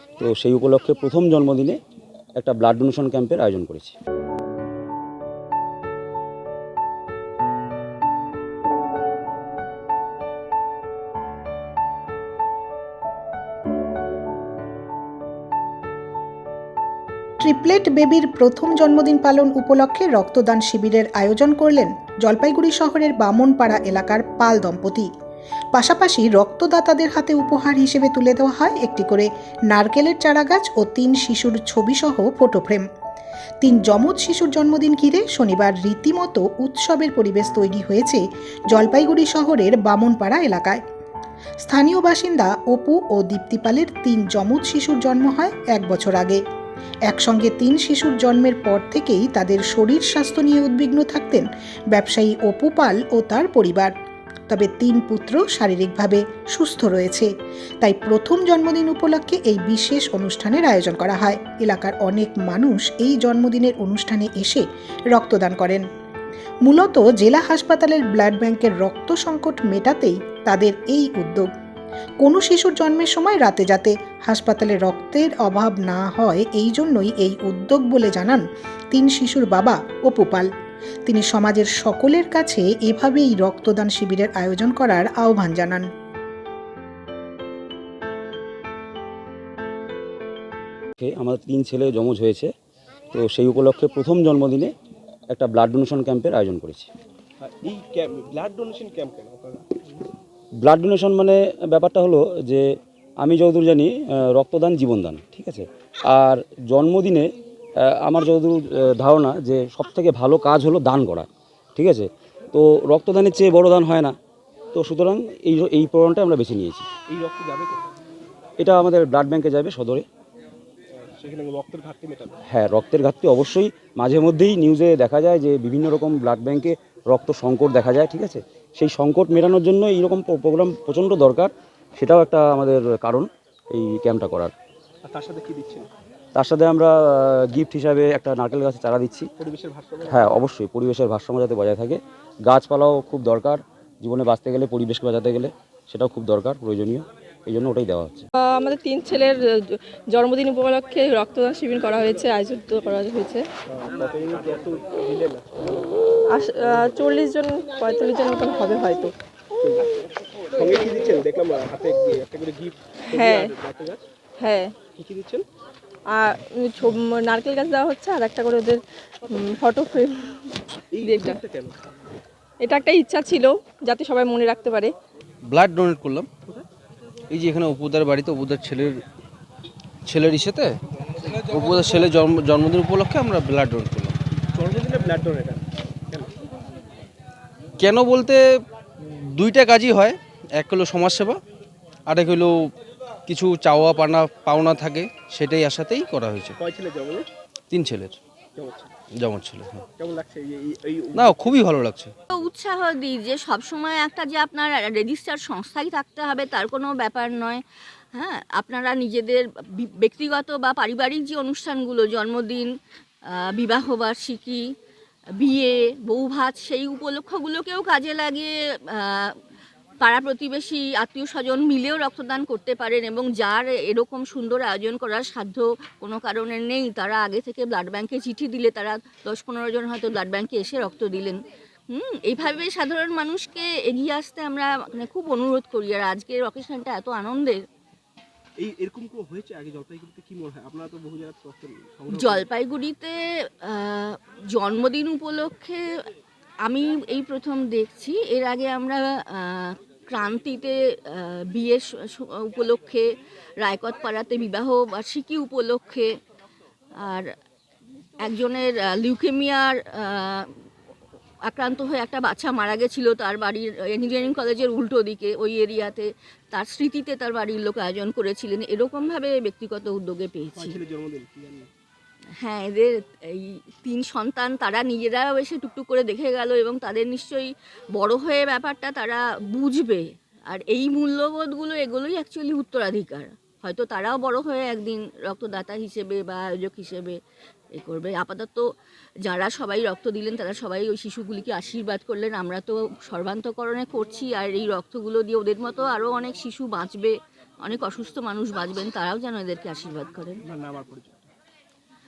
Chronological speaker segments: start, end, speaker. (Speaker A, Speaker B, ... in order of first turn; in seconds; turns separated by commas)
Speaker A: 0.2-1.8, Speaker A: 2.4-3.9, Speaker B: 17.4-25.1, Speaker B: 25.7-32.8, Speaker B: 33.6-40.8, Speaker B: 41.6-46.4, Speaker B: 47.1-53.9, Speaker B: 54.5-57.3, Speaker B: 57.8-65.8, Speaker B: 66.6-71.5, Speaker B: 72.2-80.5, Speaker B: 81.0-85.9, Speaker A: 91.0-92.5, Speaker A: 93.1-94.7, Speaker A: 95.3-96.9, Speaker C: 97.4-100.0, Speaker A: 100.6-102.7, Speaker A: 103.2-107.3, Speaker A: 107.8-114.2, Speaker A: 114.7-116.8, Speaker C: 117.1-117.8, Speaker A: 118.6-120.0, Speaker C: 120.9-122.3, Speaker A: 122.5-134.5, Speaker C: 135.0-135.9, Speaker A: 136.3-139.3, Speaker C: 139.4-140.4, Speaker A: 140.1-148.3, Speaker D: 148.3-153.4, Speaker C: 153.7-155.8, Speaker D: 156.3-159.1, Speaker C: 156.6-156.9, Speaker C: 159.6-159.9, Speaker C: 160.5-164.0, Speaker D: 163.1-163.5, Speaker D: 164.4-164.8, Speaker C: 164.9-165.5, Speaker D: 166.1-171.4, Speaker C: 170.9-171.8, Speaker D: 172.6-174.9, Speaker E: 175.5-176.3, Speaker E: 177.3-179.0, Speaker E: 180.1-184.2, Speaker C: 184.5-186.3, Speaker E: 187.8-188.4, Speaker E: 189.0-191.4, Speaker E: 192.1-192.6, Speaker E: 193.3-196.6, Speaker C: 196.6-197.3, Speaker E: 197.7-198.2, Speaker C: 198.6-198.9, Speaker E: 199.2-199.9, Speaker C: 200.0-201.6, Speaker E: 201.1-202.1, Speaker F: 202.3-207.6, Speaker F: 208.1-212.7, Speaker F: 213.3-214.7, Speaker F: 215.4-219.4, Speaker F: 220.0-231.4, Speaker F: 231.9-237.6, Speaker C: 238.6-242.5, Speaker F: 242.1-245.8, Speaker F: 246.6-256.1, Speaker F: 257.0-257.3, Speaker F: 258.2-260.6, Speaker F: 261.4-270.8, Speaker C: 270.6-271.7, Speaker F: 272.4-287.2, Speaker F: 287.7-288.6, Speaker F: 289.2-300.4, Speaker C: 300.4-301.3